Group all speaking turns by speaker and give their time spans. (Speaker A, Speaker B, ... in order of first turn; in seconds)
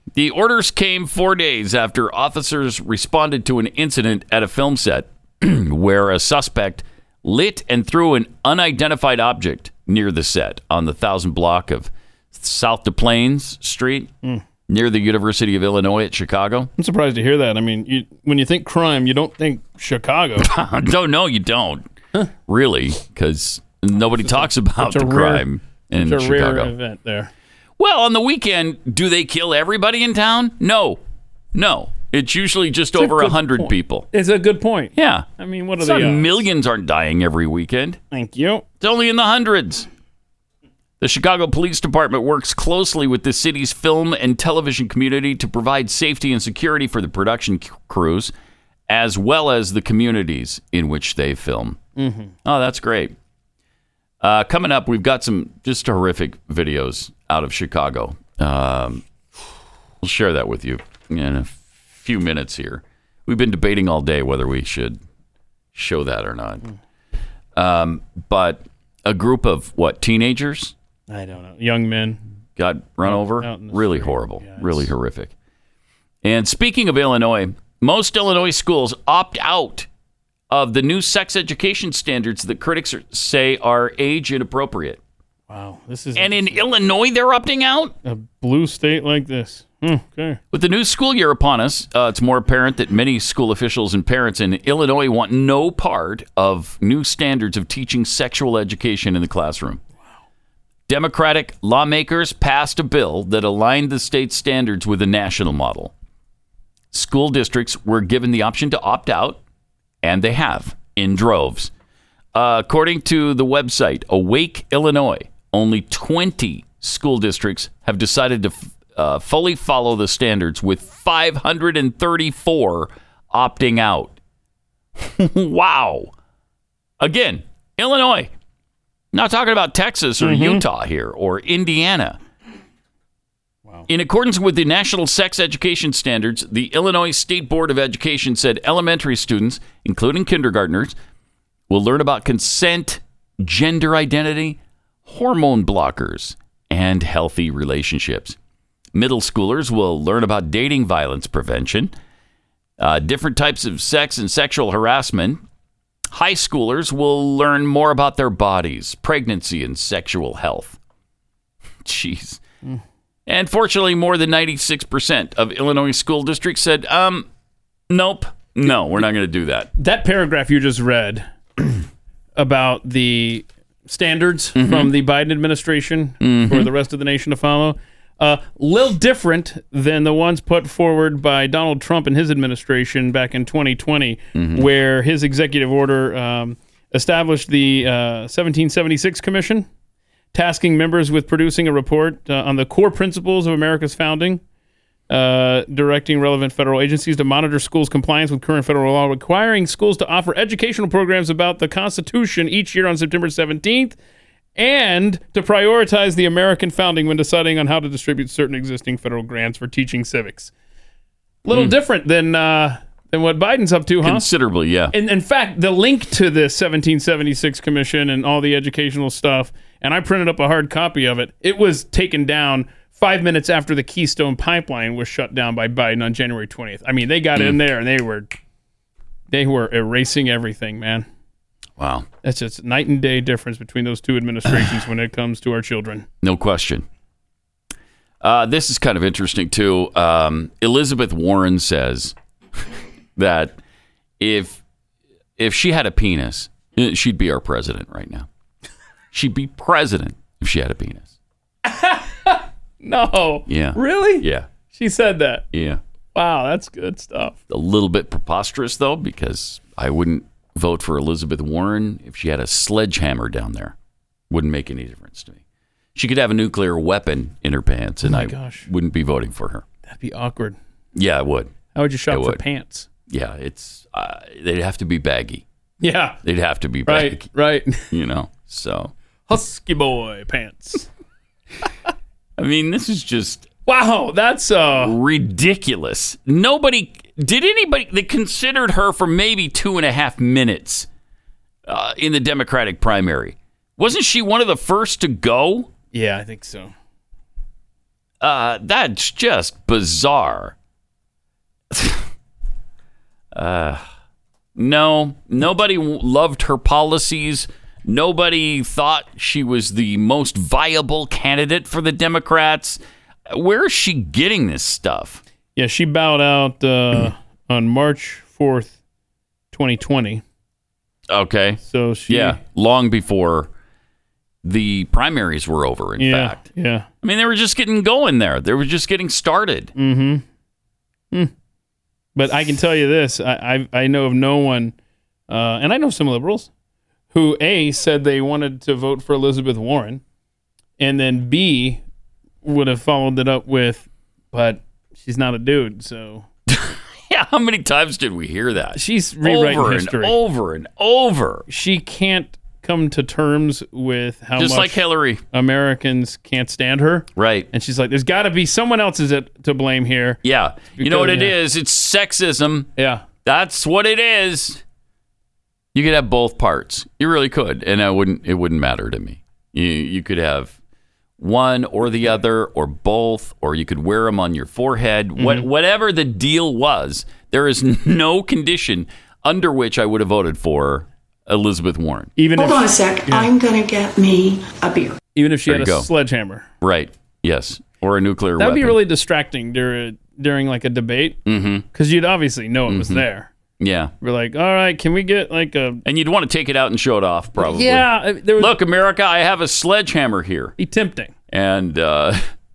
Speaker A: 0.1-14.1, 14.7-16.7, 20.4-21.9, 22.5-26.7, 27.8-31.0, 31.5-34.1, 35.0-35.3, 35.8-38.0, 38.8-39.9, 41.0-48.3, 48.9-51.8, 52.5-53.1, 54.2-59.0, 60.0-65.0, 65.7-66.7, 67.6-70.7, 72.6-75.3, 76.2-79.9, 80.5-85.0, 86.2-88.0, 90.5-99.8, 100.9-105.9, 106.9-109.4, 110.0-111.7, 112.3-124.2, 125.0-126.1, 127.0-128.3, 129.1-132.2, 133.9-140.9, 141.7-148.4, 148.9-151.9, 152.8-155.4, 156.1-160.8, 161.8-162.4, 163.3-167.3, 167.9-169.7, 174.6-174.9, 176.2-176.7, 184.3-184.7, 211.5-211.8, 214.0-214.9, 231.8-232.1, 236.2-236.8, 238.2-242.2, 243.2-243.6, 244.2-244.6, 245.4-248.3, 249.1-251.1, 253.5-254.5, 255.5-255.8, 257.5-263.8, 264.3-265.4, 266.0-269.6, 270.9-271.5, 272.1-272.4, 273.1-275.4, 276.2-277.3, 277.9-278.9, 282.4-283.5, 284.8-290.9, 291.7-295.7, 298.2-300.6, 301.7-302.1, 303.3-303.8, 304.6-315.2, 321.1-323.5, 324.4-326.4, 327.0-329.7, 346.5-351.5, 354.4-355.2, 357.2-357.5, 360.2-362.7, 363.2-364.6, 365.7-370.6, 371.2-382.1, 385.5-385.9, 386.6-388.8, 391.3-391.7, 392.7-393.1, 393.6-393.9, 395.9-400.6, 401.3-402.2
Speaker B: 16.8-20.5, 24.2-27.3, 33.0-36.5, 38.1-38.6, 52.0-52.3, 71.1-72.2, 73.1-74.9, 85.5-86.7, 88.0-90.4, 130.2-130.6, 169.8-171.7, 172.4-189.7, 190.3-194.4, 195.1-204.0, 204.6-210.5, 211.4-214.3, 214.9-228.3, 229.3-231.1, 232.2-236.1, 251.7-255.5, 256.1-257.4, 268.0-268.7, 269.9-270.6, 271.7-272.9, 275.8-276.2, 276.9-277.9, 279.3-280.9, 283.7-284.9, 295.9-296.7, 315.6-318.8, 319.5-320.2, 321.6-322.4, 326.0-326.9, 329.8-330.2, 332.2-334.8, 335.3-336.5, 337.1-340.0, 340.8-341.8, 342.4-346.3, 348.8-350.1, 351.5-360.2, 360.8-361.4, 362.8-363.1, 375.2-375.5, 382.2-383.3, 385.1-386.5, 388.4-391.2, 391.7-393.3, 394.0-395.8, 397.4-398.6, 400.6-401.1
Speaker C: 382.4-385.0